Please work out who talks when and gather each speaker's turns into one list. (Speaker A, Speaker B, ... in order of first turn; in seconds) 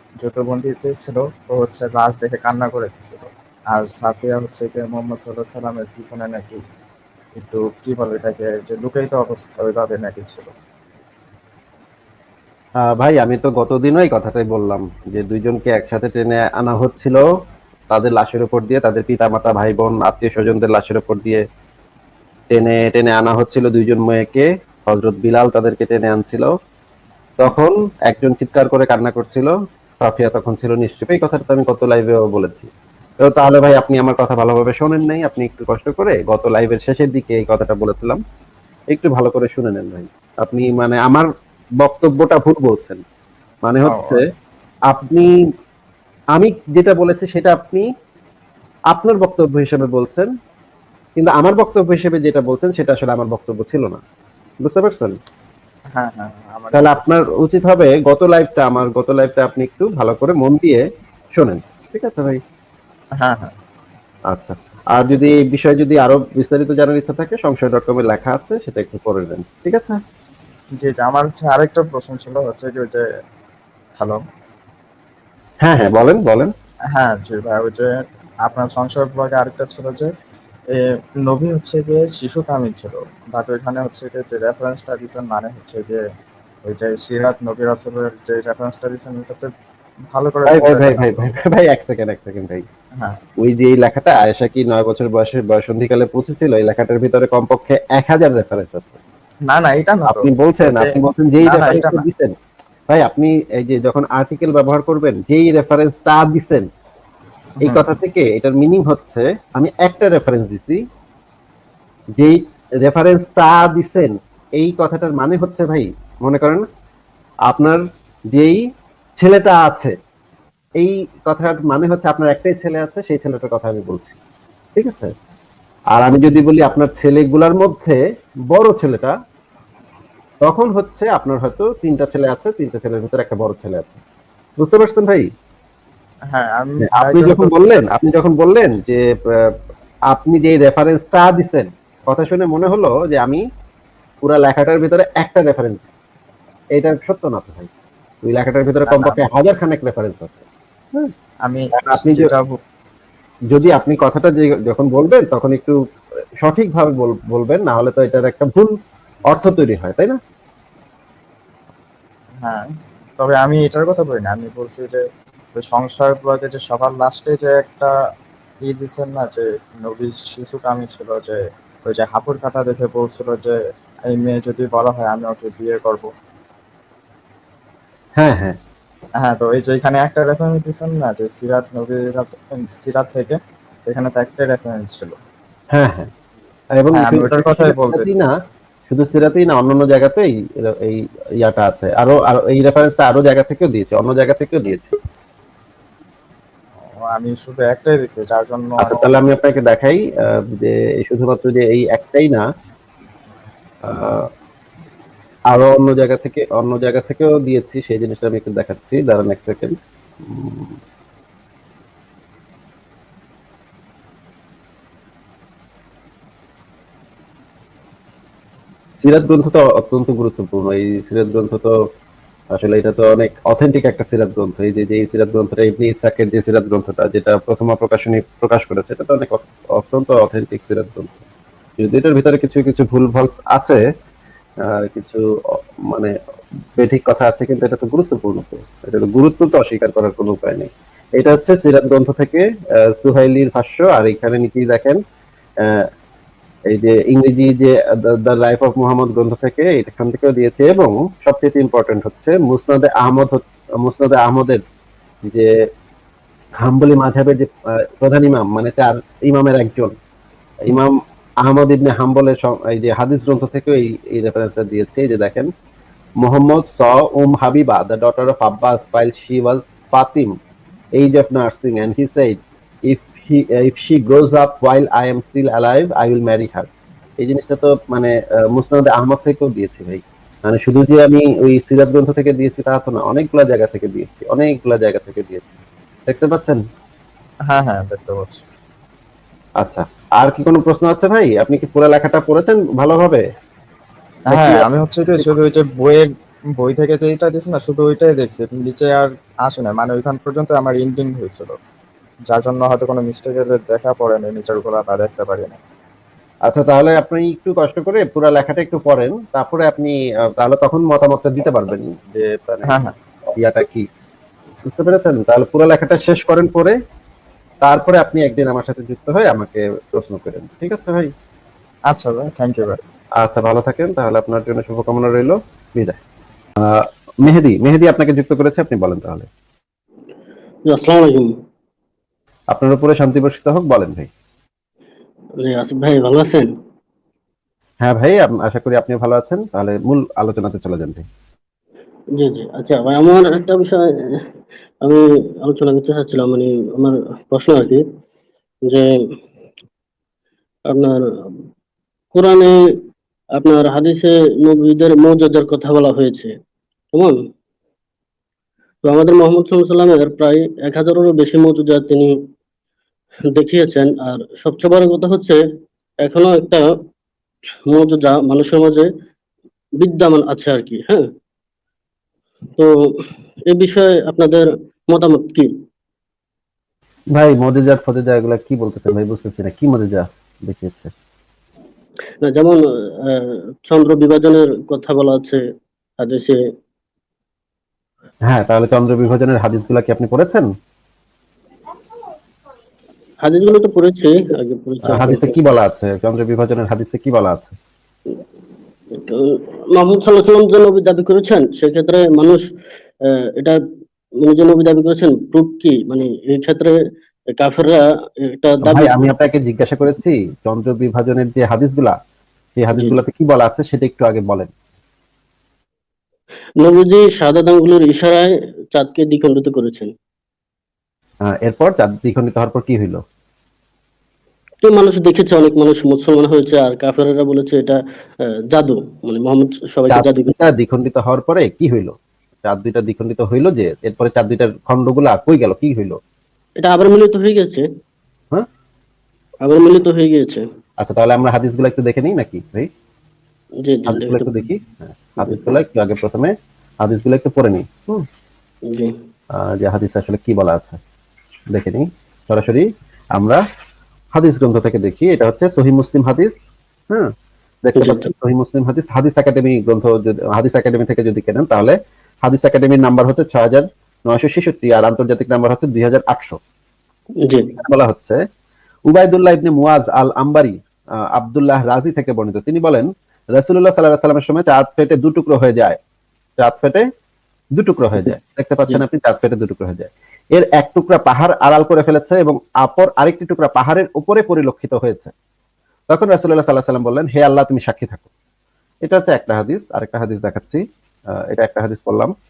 Speaker A: 0.2-6.6, 7.3-10.5, 43.8-44.2, 55.9-57.0, 63.2-63.5, 70.8-73.0, 76.9-80.1, 80.7-86.0, 86.6-89.5, 90.1-91.0, 99.5-100.9, 101.4-102.0, 107.6-107.8, 136.3-137.6, 148.9-149.2, 151.4-152.6, 163.2-165.0, 165.6-167.9, 168.6-176.1, 179.2-185.2, 186.9-188.2, 197.0-199.1, 287.5-288.4, 294.3-301.6, 302.3-305.6, 312.7-312.9, 321.9-322.8
Speaker B: 12.8-17.2, 17.9-21.4, 22.5-26.5, 27.4-32.7, 33.2-38.2, 38.9-41.3, 41.8-43.0, 43.6-44.2, 44.9-45.3, 46.3-47.8, 48.9-50.3, 51.2-54.0, 54.6-55.1, 56.7-62.4, 64.3-70.0, 75.6-76.5, 90.5-92.6, 93.4-99.0, 100.1-102.3, 102.9-106.7, 107.6-110.8, 112.2-116.6, 117.5-117.8, 118.3-118.6, 119.2-119.9, 120.8-124.1, 124.8-125.1, 125.9-128.0, 128.5-129.1, 130.4-134.0, 134.6-135.3, 136.8-139.6, 140.1-143.4, 144.2-145.9, 146.8-147.7, 148.2-150.4, 151.7-152.3, 153.5-155.8, 156.4-158.7, 159.3-160.2, 178.2-178.6, 185.7-186.1, 186.8-188.3, 188.9-194.9, 198.8-202.4, 203.8-204.2, 205.5-210.7, 219.0-221.7, 222.5-231.2, 231.8-233.8, 234.7-235.2, 235.9-236.1, 236.8-245.0, 246.7-254.6, 256.6-257.5, 258.0-259.9, 260.6-265.5, 266.2-270.3, 271.0-272.4, 272.9-276.7, 277.2-285.5, 286.1-286.6, 289.6-293.2, 294.3-294.6, 306.4-312.7, 313.4-313.9, 314.6-316.8, 317.6-321.1, 323.2-326.0, 326.6-329.3, 332.5-334.1, 337.8-341.0, 377.1-380.9, 388.3-390.5, 394.9-397.5, 408.6-411.9, 412.6-414.5, 421.2-423.0, 429.9-436.0, 440.8-442.7, 443.9-448.1, 449.3-450.8, 451.5-453.4, 454.1-457.1, 457.6-466.4, 467.6-468.2, 468.9-470.6, 471.1-475.8, 476.4-476.9, 477.6-485.1, 485.9-488.1, 488.8-490.6, 491.3-492.1
Speaker C: 330.7-331.3, 335.4-336.5, 342.1-344.2, 344.8-347.8, 348.6-349.0, 350.7-351.4, 352.1-352.8, 353.4-356.3, 358.9-362.1, 363.3-365.4, 366.0-366.7, 367.7-368.9, 369.8-371.1, 372.6-375.5, 382.2-385.4, 386.0-386.4, 393.2-395.3, 398.9-402.4, 403.0-403.6, 404.2-406.8, 407.3-409.0, 416.6-419.9, 424.6-427.8, 428.5-430.3, 436.6-437.6, 439.4-440.4, 443.6-444.4, 448.7-448.9, 457.8-458.1, 467.2-467.5